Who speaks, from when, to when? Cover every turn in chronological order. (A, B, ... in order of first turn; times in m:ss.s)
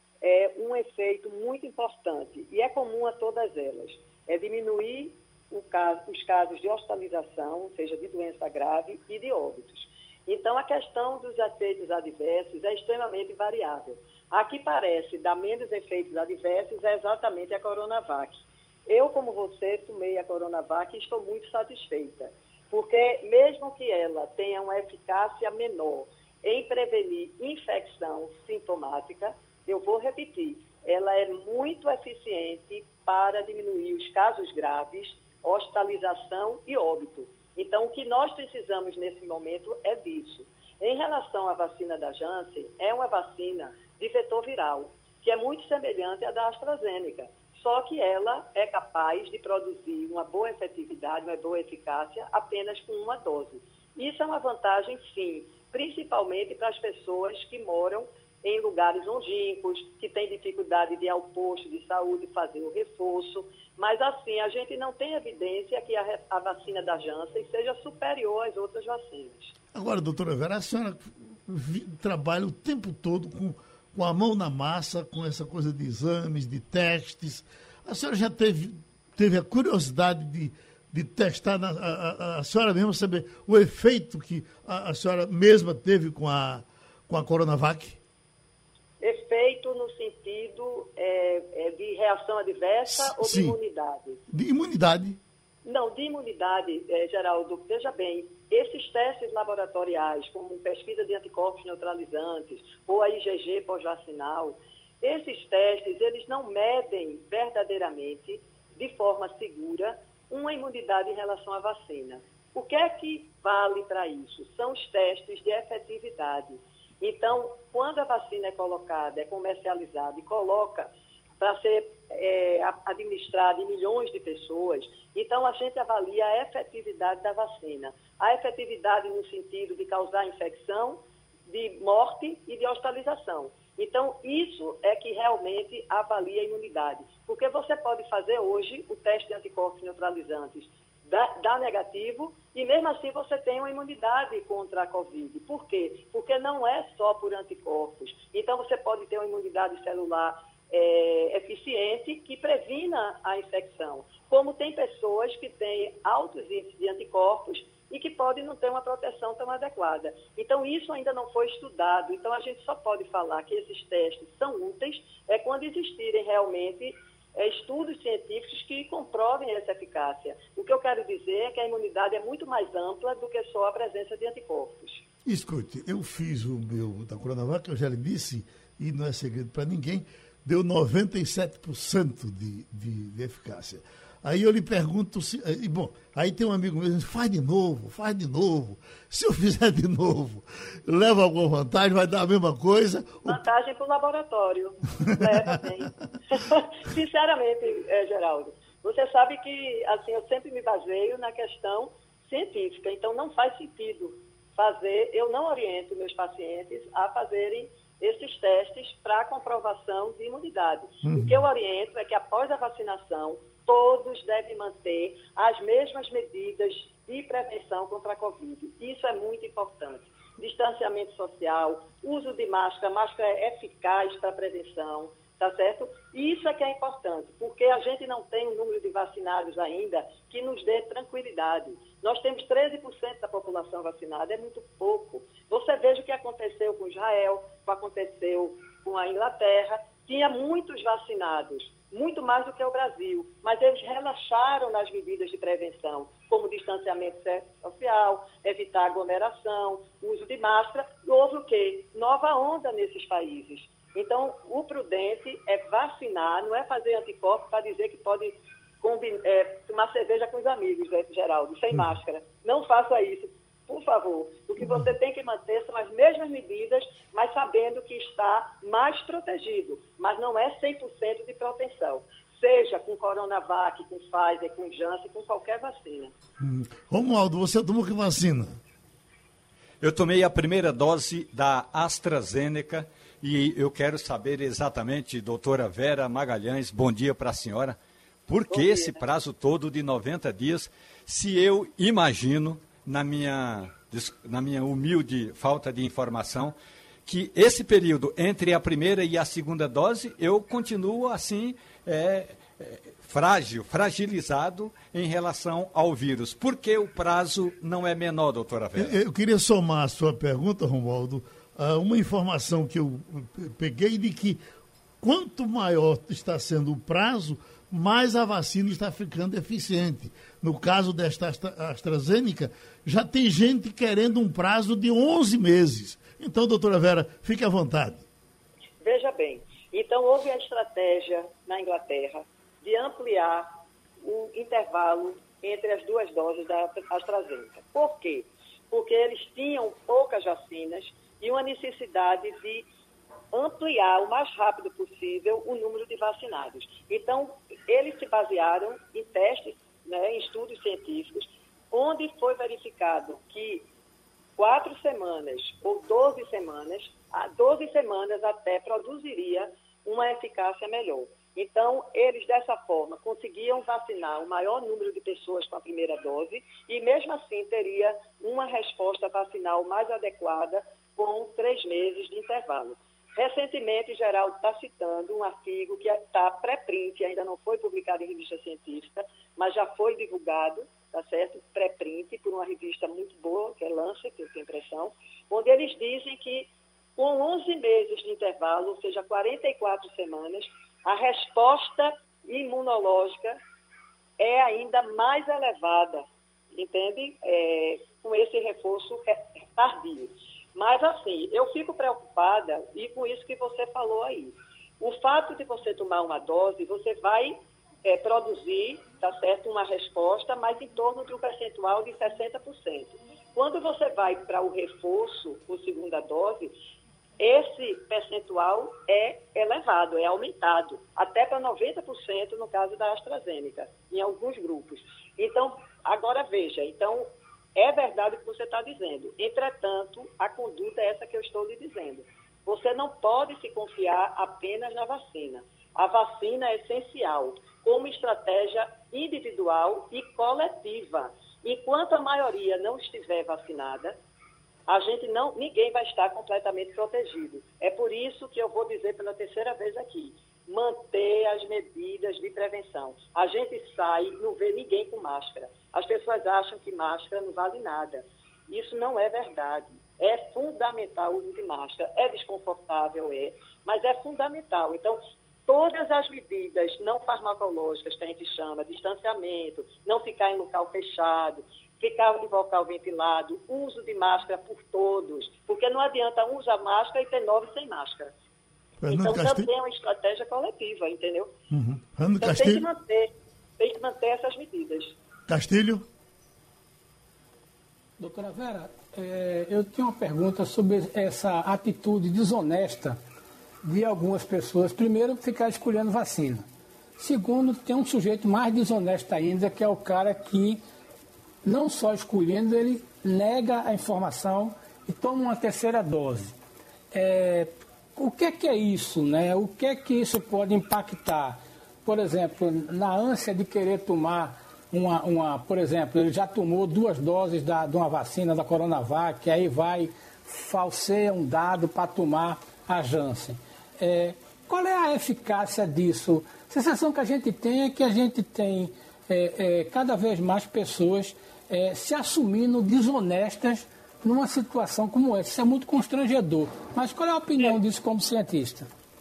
0:00.2-1:09.5 A
1:09.7-1:28.0 B
1:29.0-1:34.2 A
1:32.8-1:33.6 B
1:34.3-1:35.2 B
1:35.6-2:55.0 A
2:55.2-3:13.4 B
3:13.2-4:36.1 A
3:31.0-3:31.4 B
4:36.4-4:38.6 B
4:39.8-4:56.5 C
4:48.5-4:49.0 A
4:57.0-5:08.9 C
5:08.8-5:14.4 B
5:15.0-5:28.0 B
5:28.8-5:33.5 A
5:34.0-5:42.6 A
5:43.3-5:53.6 A
5:54.4-6:33.4 A
6:34.2-6:56.5 A
6:57.2-7:07.0 A
7:07.6-7:24.0 A
7:24.7-7:58.1 A
7:58.8-7:59.5 B
7:58.9-8:01.3 A
8:01.5-8:02.7 B
8:02.2-8:04.9 A
8:05.3-8:05.8 B
8:08.0-8:13.0 D
8:13.6-8:16.4 D
8:17.0-8:20.6 D
8:21.4-8:26.3 D
8:26.9-8:58.7 D